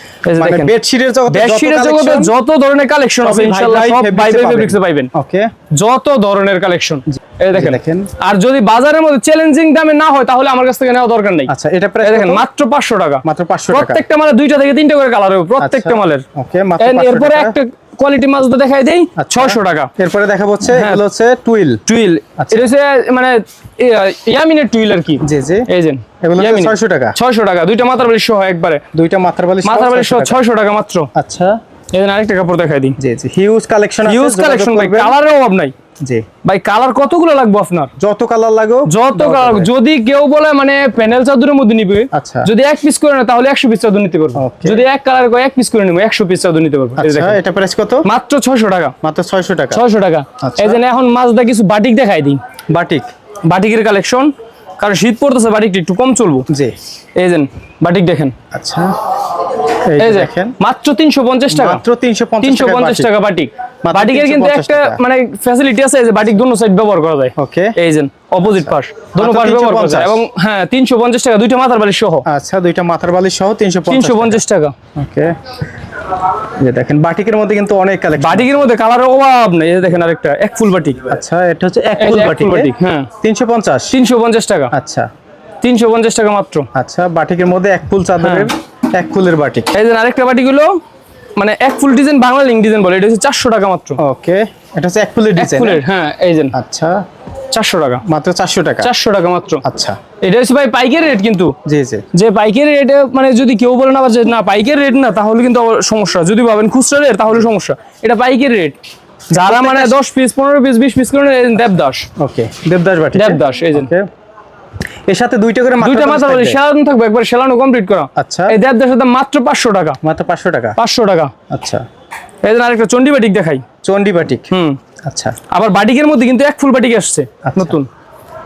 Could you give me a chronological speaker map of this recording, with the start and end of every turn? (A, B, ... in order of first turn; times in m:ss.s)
0:00.2-0:00.7 A
0:00.3-0:02.3 B
0:01.3-0:05.1 A
0:03.2-0:05.5 B
0:05.7-0:16.2 A
0:07.1-0:08.1 B
0:11.5-0:12.4 B
0:13.2-0:14.0 B
0:15.6-0:17.6 B
0:16.8-0:19.9 A
0:19.2-0:21.8 B
0:20.7-0:21.0 A
0:21.8-0:28.8 A
0:22.4-0:22.7 B
0:25.2-0:25.7 B
0:26.2-0:27.2 B
0:28.9-0:30.4 B
0:29.6-0:31.1 A
0:31.1-0:31.6 B
0:31.9-0:33.0 A
0:33.0-0:35.2 B
0:34.0-0:35.7 A
0:36.4-0:37.9 A
0:38.0-0:39.7 B
0:38.8-0:47.4 A
0:42.1-0:42.5 B
0:44.3-0:44.8 B
0:47.0-0:48.1 B
0:48.0-0:48.9 A
0:49.0-0:49.8 B
0:49.7-0:52.4 A
0:50.4-0:50.8 B
0:52.7-0:53.1 B
0:53.4-0:56.5 A
0:56.5-0:56.7 B
0:57.2-0:58.3 A
0:58.5-0:58.9 B
0:59.7-1:00.5 B
1:00.0-1:01.8 A
1:01.5-1:03.1 B
1:02.4-1:12.2 A
1:03.8-1:05.0 B
1:07.4-1:07.7 B
1:08.4-1:10.2 B
1:12.2-1:14.4 B
1:13.9-1:14.7 A
1:14.9-1:15.3 B
1:16.6-1:18.6 B
1:18.2-1:21.0 A
1:21.1-1:24.0 B
1:22.0-1:23.1 A
1:23.9-1:24.7 A
1:24.7-1:25.1 B
1:25.6-1:26.6 A
1:26.7-1:29.7 B
1:28.2-1:28.5 A
1:29.7-1:30.8 A
1:31.4-1:34.0 A
1:34.0-1:35.8 B
1:35.4-1:36.5 A
1:36.5-1:37.0 B
1:37.5-1:38.0 A
1:38.0-1:38.9 B
1:38.8-1:39.6 A
1:39.6-1:40.0 B
1:40.2-1:41.5 A
1:41.6-1:42.0 B
1:42.1-1:48.8 A
1:49.3-1:49.9 B
1:49.3-1:52.1 A
1:52.2-1:54.1 B
1:53.1-1:53.9 A
1:55.1-1:56.6 B
1:55.8-2:00.0 A
1:58.2-1:58.6 B
2:00.0-2:00.8 B
2:00.8-2:01.3 A
2:01.5-2:01.8 B
2:02.4-2:03.6 A
2:03.8-2:04.5 B
2:04.5-2:04.8 A
2:05.0-2:05.4 B
2:05.5-2:07.9 A
2:07.4-2:07.8 B